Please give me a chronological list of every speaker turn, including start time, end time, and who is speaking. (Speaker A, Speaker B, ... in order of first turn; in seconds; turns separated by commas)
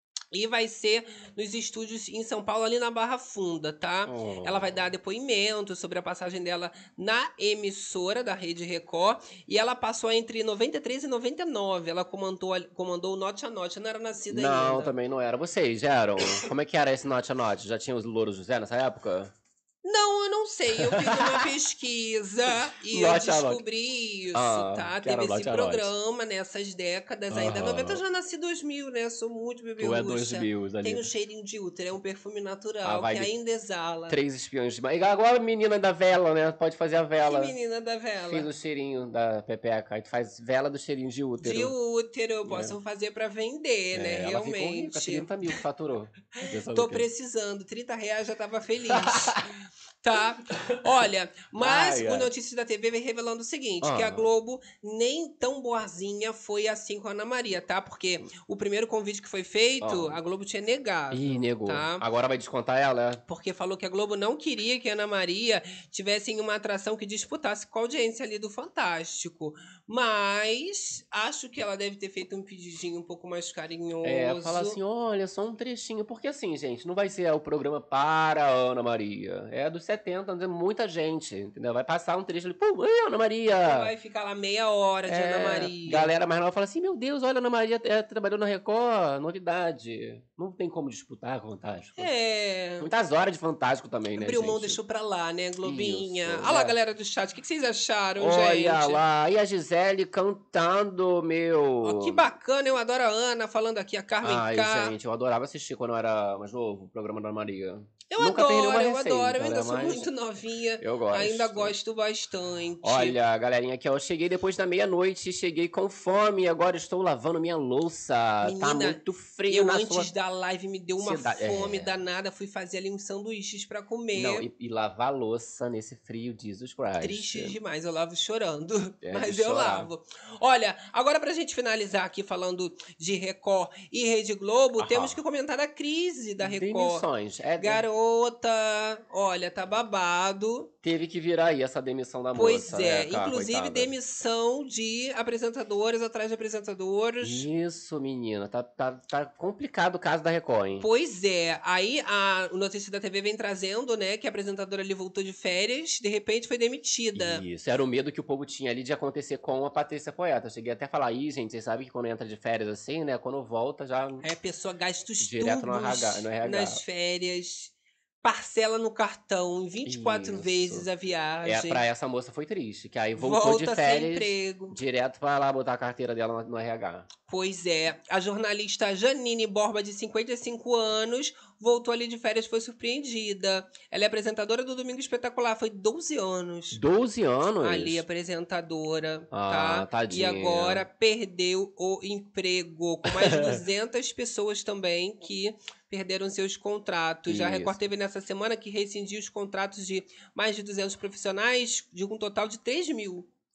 Speaker A: 0.3-14.9, Speaker B: 4.1-4.9, Speaker B: 14.3-19.3, Speaker A: 19.8-34.2, Speaker B: 20.8-21.5, Speaker B: 22.7-23.6, Speaker B: 24.3-25.9, Speaker B: 27.3-28.0, Speaker B: 29.8-31.1, Speaker B: 32.8-33.3, Speaker B: 34.1-37.6, Speaker A: 37.2-38.5, Speaker B: 38.3-41.7, Speaker A: 41.4-45.6, Speaker B: 42.5-42.8, Speaker B: 43.9-47.1, Speaker A: 46.4-49.5, Speaker B: 48.9-49.5, Speaker A: 50.0-62.0, Speaker B: 50.5-50.9, Speaker B: 51.6-52.3, Speaker B: 53.8-54.3, Speaker B: 59.8-60.2, Speaker B: 61.1-63.2, Speaker A: 63.3-74.8, Speaker B: 74.0-83.9, Speaker A: 83.5-86.1, Speaker B: 85.1-92.1, Speaker A: 92.0-92.9, Speaker B: 92.8-94.8, Speaker A: 94.2-99.0, Speaker B: 95.6-96.8, Speaker B: 98.2-102.2, Speaker A: 101.8-105.0, Speaker B: 104.2-110.1, Speaker A: 108.1-113.2, Speaker B: 110.8-111.8, Speaker B: 112.8-120.1, Speaker A: 118.4-124.5, Speaker B: 121.0-122.0, Speaker B: 124.1-127.6, Speaker A: 127.0-137.1, Speaker B: 129.0-129.9, Speaker B: 134.8-135.2, Speaker B: 136.4-137.9, Speaker A: 137.6-140.7, Speaker B: 140.8-143.9, Speaker A: 142.3-147.5, Speaker B: 147.2-150.9, Speaker A: 150.8-157.4, Speaker B: 157.2-164.2, Speaker A: 164.2-171.8, Speaker B: 165.2-166.8, Speaker B: 169.9-170.9, Speaker B: 171.4-177.1, Speaker A: 173.2-174.8, Speaker A: 177.3-186.8, Speaker B: 186.7-188.0, Speaker A: 187.6-203.3, Speaker B: 189.3-190.8, Speaker B: 193.1-193.6, Speaker B: 197.3-197.8